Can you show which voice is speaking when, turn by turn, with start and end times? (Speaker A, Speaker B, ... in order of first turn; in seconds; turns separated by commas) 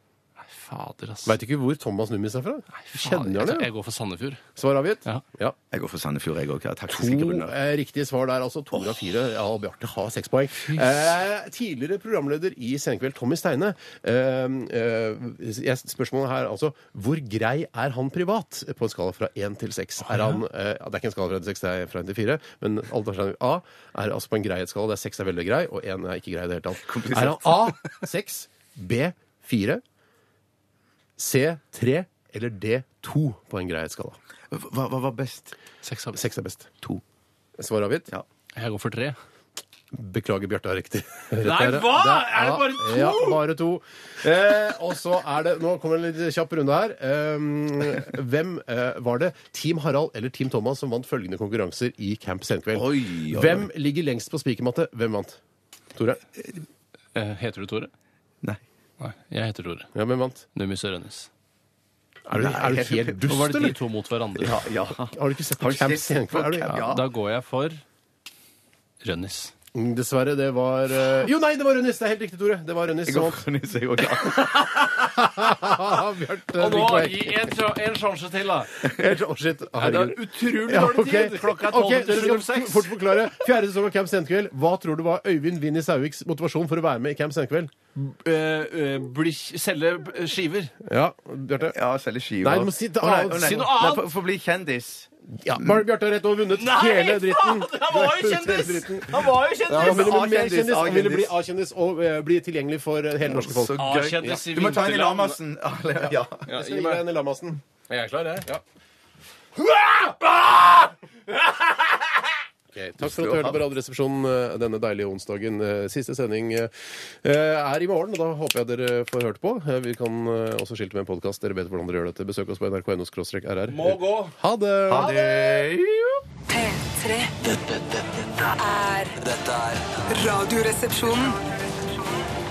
Speaker A: 0.4-1.4, Speaker B: 1.2-3.7, Speaker A: 2.9-4.4, Speaker B: 4.5-5.5, Speaker C: 5.7-7.5, Speaker B: 6.9-29.8, Speaker A: 10.6-10.9, Speaker C: 26.8-27.8, Speaker B: 31.2-34.2, Speaker C: 34.5-35.5, Speaker A: 35.8-36.2, Speaker B: 36.1-36.7, Speaker B: 37.6-38.1, Speaker A: 38.5-39.1, Speaker B: 39.9-55.4, Speaker A: 41.4-43.4, Speaker C: 52.7-53.7, Speaker B: 55.9-56.2, Speaker A: 57.1-57.9, Speaker A: 59.0-59.9, Speaker B: 59.9-60.4, Speaker A: 60.5-61.3, Speaker B: 62.3-63.8, Speaker C: 62.3-63.2, Speaker A: 63.3-64.6, Speaker C: 64.4-67.1, Speaker B: 65.0-66.7, Speaker A: 66.7-67.8, Speaker A: 69.0-69.5, Speaker B: 69.7-73.4, Speaker C: 73.0-74.5, Speaker B: 74.5-77.3, Speaker A: 76.6-78.8, Speaker B: 78.8-87.7, Speaker A: 79.8-83.3, Speaker A: 87.9-90.7, Speaker B: 90.8-91.8, Speaker C: 91.7-95.8, Speaker B: 92.4-93.7, Speaker A: 93.3-94.1, Speaker B: 95.4-103.8, Speaker A: 96.5-100.2, Speaker C: 99.7-101.3, Speaker C: 103.2-106.5, Speaker A: 103.7-105.4, Speaker A: 106.5-107.0, Speaker B: 106.5-107.6, Speaker A: 107.9-108.5, Speaker B: 109.7-110.2, Speaker A: 109.9-110.7, Speaker B: 112.7-125.2, Speaker C: 113.0-113.6, Speaker A: 123.7-124.3, Speaker C: 124.9-126.2, Speaker D: 126.5-127.3, Speaker E: 127.4-128.5, Speaker D: 128.6-129.2, Speaker E: 129.2-130.0, Speaker D: 130.1-131.4